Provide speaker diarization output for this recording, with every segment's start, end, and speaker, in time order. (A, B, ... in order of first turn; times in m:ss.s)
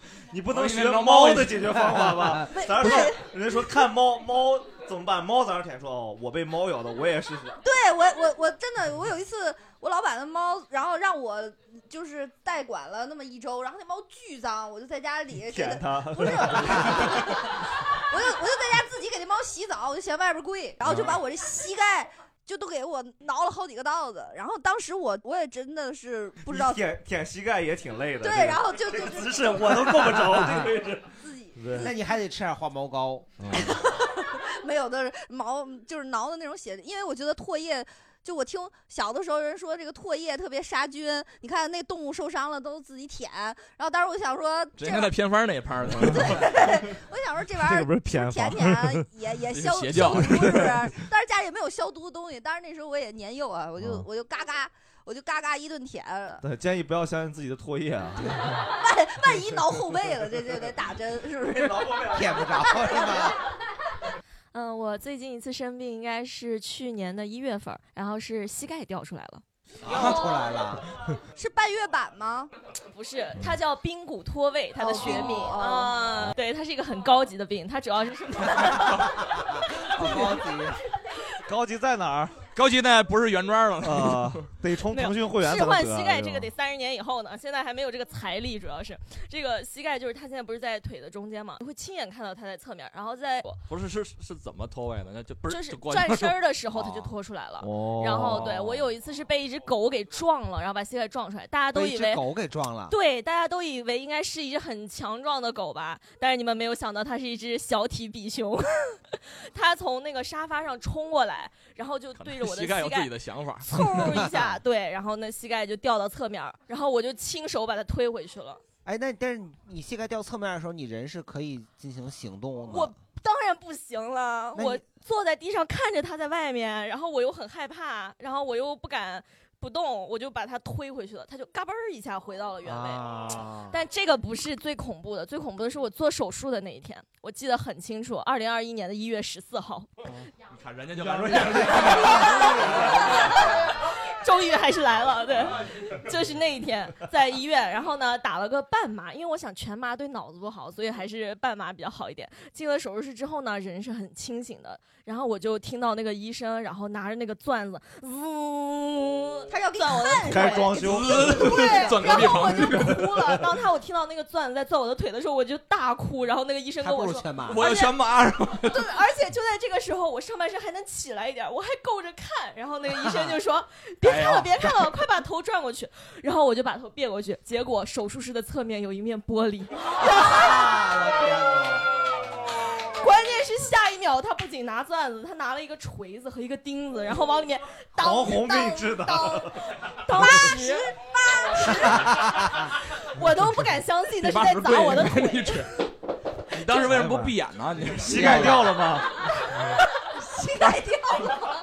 0:00.3-0:07.6 A
0:00.5-0:01.9 B
0:02.5-0:03.2 C
0:07.6-0:17.5 C
0:15.4-0:17.2 A
0:18.1-0:26.8 C
0:20.8-0:21.2 A
0:26.4-0:31.9 A
0:28.2-0:30.1 C
0:31.2-0:31.9 C
0:31.7-0:33.5 D
0:33.5-0:45.1 C
0:44.8-0:46.8 B
0:45.9-0:46.4 A
0:46.0-0:56.4 C
0:47.6-0:49.1 A
0:49.5-0:50.8 B
0:50.0-0:50.5 A
0:56.4-0:58.6 A
0:58.8-1:03.3 C
1:01.5-1:02.3 A
1:02.1-1:03.4 D
1:04.5-1:09.4 E
1:09.8-1:10.8 D
1:11.4-1:12.5 C
1:12.9-1:19.1 E
1:14.7-1:16.1 C
1:19.9-1:20.8 D
1:20.0-1:20.4 A
1:21.5-1:22.4 A
1:22.5-1:24.5 B
1:23.8-1:26.5 A
1:24.9-1:33.6 E
1:33.7-1:37.1 B
1:35.5-1:42.2 E
1:37.6-1:38.6 A
1:38.1-1:38.8 B
1:41.7-1:42.9 D
1:42.9-1:53.1 E
1:52.1-1:54.0 B
1:53.6-1:58.6 E
1:58.8-2:02.9 D
2:02.7-2:13.0 E
2:04.5-2:04.8 D
2:12.6-2:13.8 D
2:13.7-2:19.9 E
2:20.5-2:23.3 B
2:21.0-2:22.1 A
2:22.0-2:40.8 E
2:39.5-2:42.9 C
2:40.2-2:41.6 A
2:40.8-2:43.1 B
2:41.5-2:47.9 E
2:42.1-2:42.4 A
2:46.8-2:47.7 D
2:47.5-2:48.8 B
2:48.6-3:00.7 E
2:53.0-2:53.4 D
2:54.0-2:54.9 B
3:00.0-3:01.9 D
3:02.9-3:09.3 E
3:08.0-3:09.6 A
3:08.2-3:09.0 C
3:10.0-3:10.9 E
3:10.2-3:12.1 C
3:11.5-3:12.1 E
3:12.6-3:15.7 E
3:14.2-3:15.7 B
3:16.5-3:18.8 B
3:16.7-3:17.3 A
3:17.9-3:19.1 A
3:18.2-3:18.6 D
3:20.4-3:21.0 E
3:20.6-3:21.2 C